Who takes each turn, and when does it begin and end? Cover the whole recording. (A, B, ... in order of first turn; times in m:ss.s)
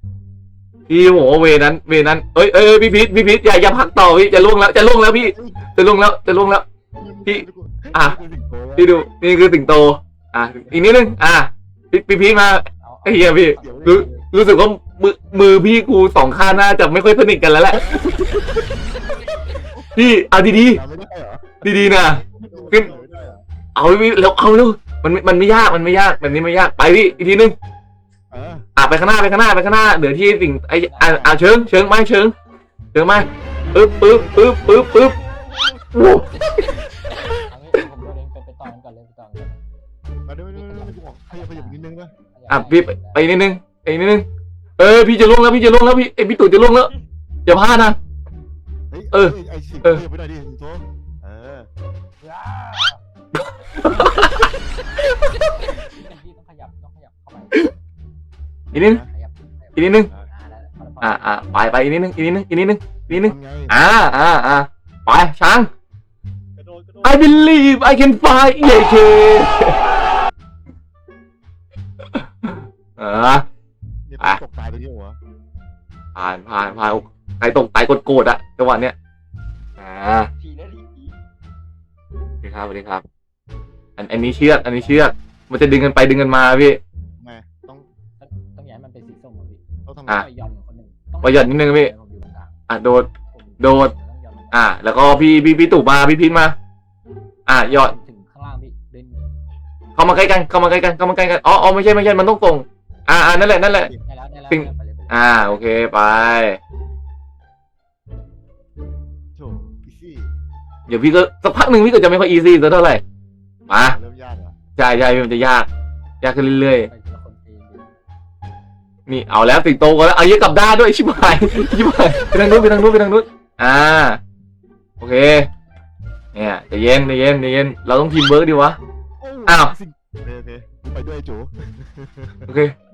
0:00.9-0:06.6 A
0:05.1-0:05.7 B
0:06.9-0:08.9 B
0:07.3-0:08.2 A
0:08.8-0:18.0 A
0:10.6-0:11.0 C
0:12.8-0:14.3 C
0:13.5-0:14.1 B
0:17.7-0:18.8 B
0:18.9-0:19.9 D
0:19.9-0:20.8 A
0:20.4-0:23.4 B
0:21.6-0:22.9 A
0:22.5-0:22.9 D
0:23.7-0:27.5 A
0:28.3-0:28.7 B
0:28.8-0:32.3 A
0:30.8-0:32.0 C
0:32.9-0:35.2 A
0:34.0-0:35.0 B
0:34.6-0:35.9 D
0:35.9-0:36.7 A
0:37.4-0:39.6 C
0:40.2-0:42.1 B
0:40.5-0:43.3 C
0:42.5-0:44.2 A
0:44.8-0:46.9 A
0:47.4-0:48.0 A
0:48.9-0:51.7 B
0:49.1-0:50.0 A
0:53.7-0:54.5 A
0:54.0-0:54.3 C
0:55.5-0:57.7 C
0:58.7-0:59.0 A
0:58.7-0:59.1 B
0:58.9-1:01.8 C
0:59.8-1:00.1 A
0:59.9-1:00.3 B
1:01.0-1:05.7 A
1:03.1-1:03.8 B
1:06.6-1:07.2 D
1:07.0-1:09.8 A
1:12.1-1:13.4 A
1:14.0-1:15.2 B
1:16.2-1:18.9 A
1:19.8-1:20.3 A
1:20.4-1:21.2 D
1:22.4-1:23.0 A
1:24.0-1:26.8 A
1:24.5-1:25.1 C
1:27.2-1:27.9 B
1:28.2-1:32.6 C
1:29.8-1:30.2 B
1:31.2-1:31.9 A
1:32.7-1:33.1 A
1:33.3-1:35.2 C
1:33.6-1:33.9 A
1:34.5-1:36.6 A
1:37.5-1:37.9 A
1:37.6-1:39.3 C
1:40.0-1:43.9 A
1:43.9-1:45.6 C
1:44.5-1:46.6 A
1:49.3-1:50.3 B
1:50.9-1:53.0 A
1:53.7-1:54.0 A
1:53.8-1:54.6 B
1:54.8-1:55.7 A
1:56.2-1:56.9 A
1:56.7-1:57.9 C
1:59.1-2:04.2 A
2:05.0-2:05.5 A
2:06.3-2:08.8 A
2:09.2-2:12.6 B
2:09.4-2:09.7 A
2:12.5-2:12.7 A